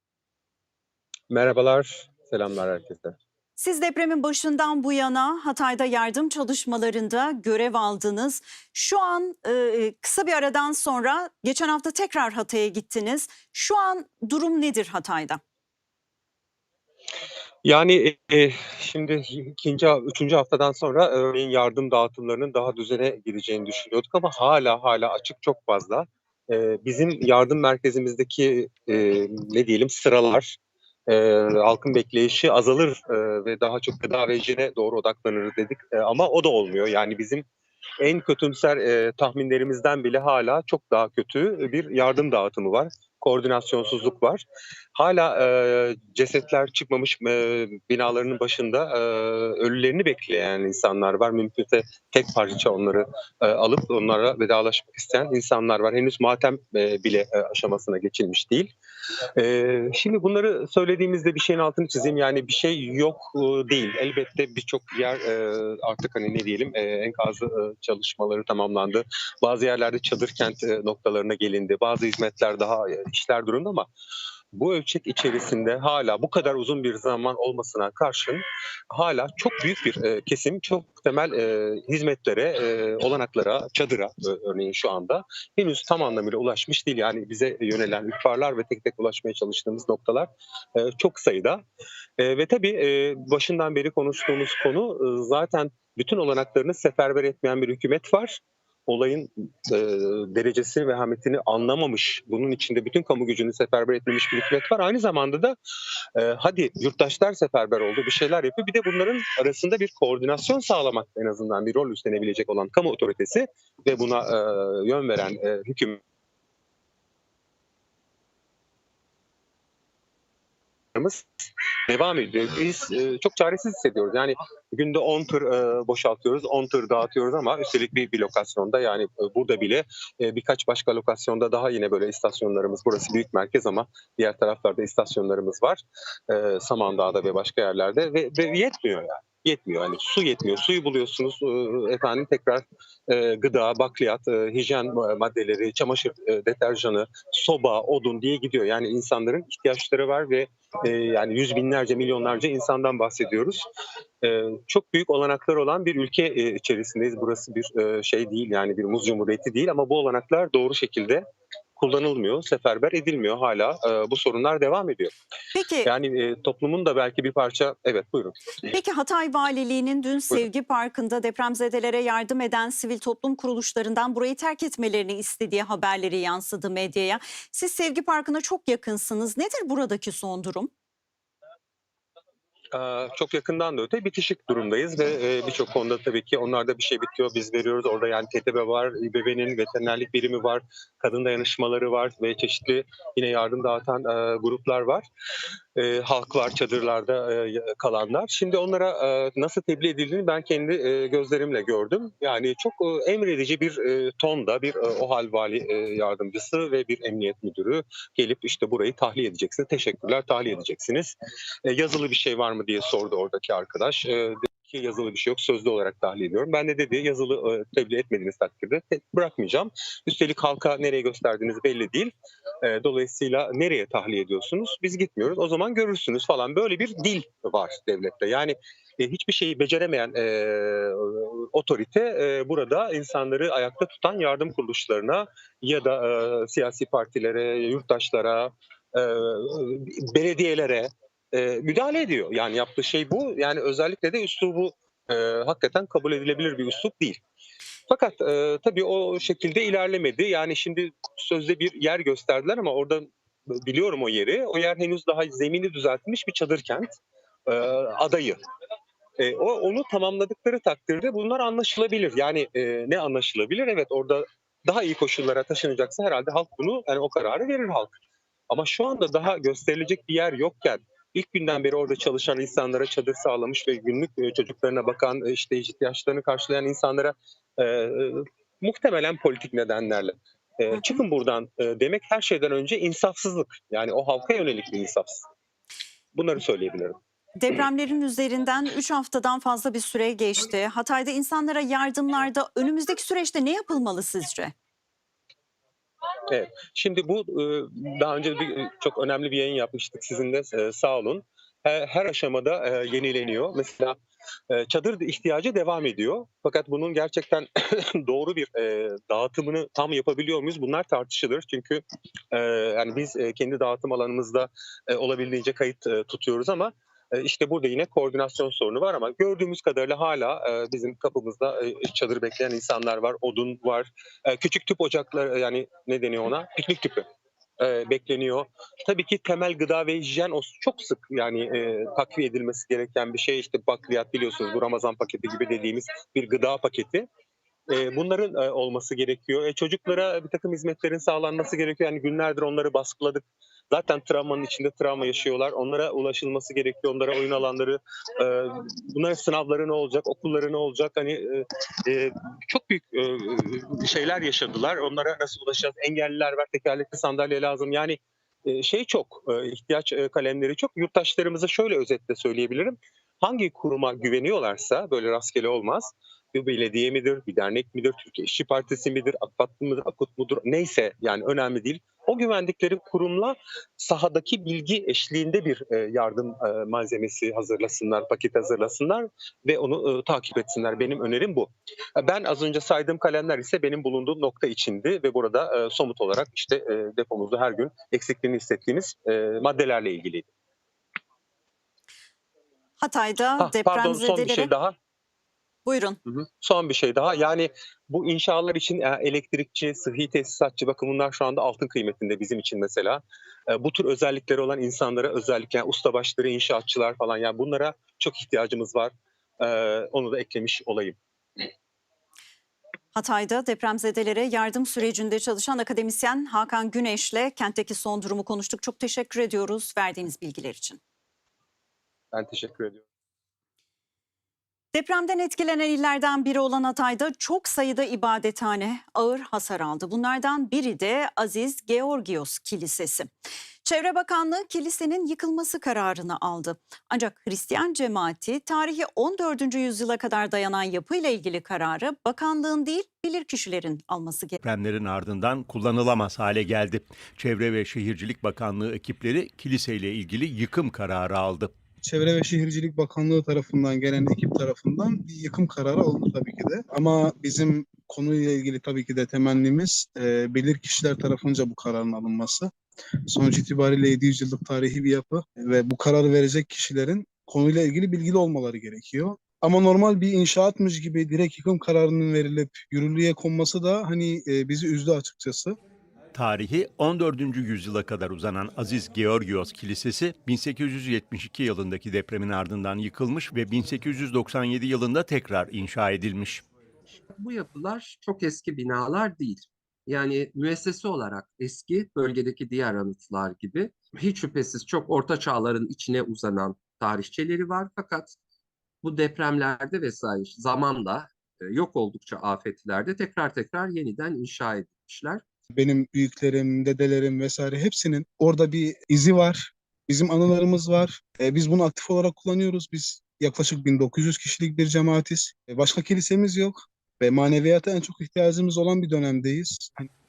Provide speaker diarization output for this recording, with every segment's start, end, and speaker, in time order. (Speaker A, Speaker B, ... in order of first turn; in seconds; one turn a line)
Speaker A: 1.3-3.1
Speaker B: 3.6-15.4
Speaker A: 17.6-30.6
Speaker A: 31.1-37.4
Speaker A: 38.0-44.4
Speaker A: 44.9-58.7
Speaker A: 59.4-73.9
Speaker A: 74.5-91.6
Speaker A: 92.2-105.5
Speaker A: 106.2-116.0
Speaker A: 120.9-121.2
Speaker A: 121.9-153.6
Speaker A: 154.2-161.2
Speaker A: 161.8-165.1
Speaker B: 165.5-165.9
Speaker A: 165.8-168.7
Speaker B: 168.7-180.7
Speaker A: 182.7-195.0
Speaker A: 195.8-247.2
Speaker A: 247.9-256.9
Speaker A: 257.5-258.4
Speaker A: 259.2-268.0
Speaker A: 268.5-285.2
Speaker A: 286.1-287.0
Speaker B: 287.4-294.5
Speaker A: 296.3-304.0
Speaker A: 304.5-327.0
Speaker A: 327.6-337.1
Speaker A: 337.7-390.3
Speaker B: 392.8-394.5
Speaker A: 393.4-394.7
Speaker B: 395.6-396.0
Speaker A: 396.1-410.9
Speaker B: 412.9-420.8
Speaker A: 422.1-422.8
Speaker B: 424.7-433.1
Speaker B: 433.6-444.4
Speaker C: 444.4-451.5
Speaker D: 451.8-462.5
Speaker D: 463.1-475.6
Speaker C: 476.1-486.4
Speaker E: 487.1-498.1
Speaker E: 498.8-505.2
Speaker D: 505.5-519.9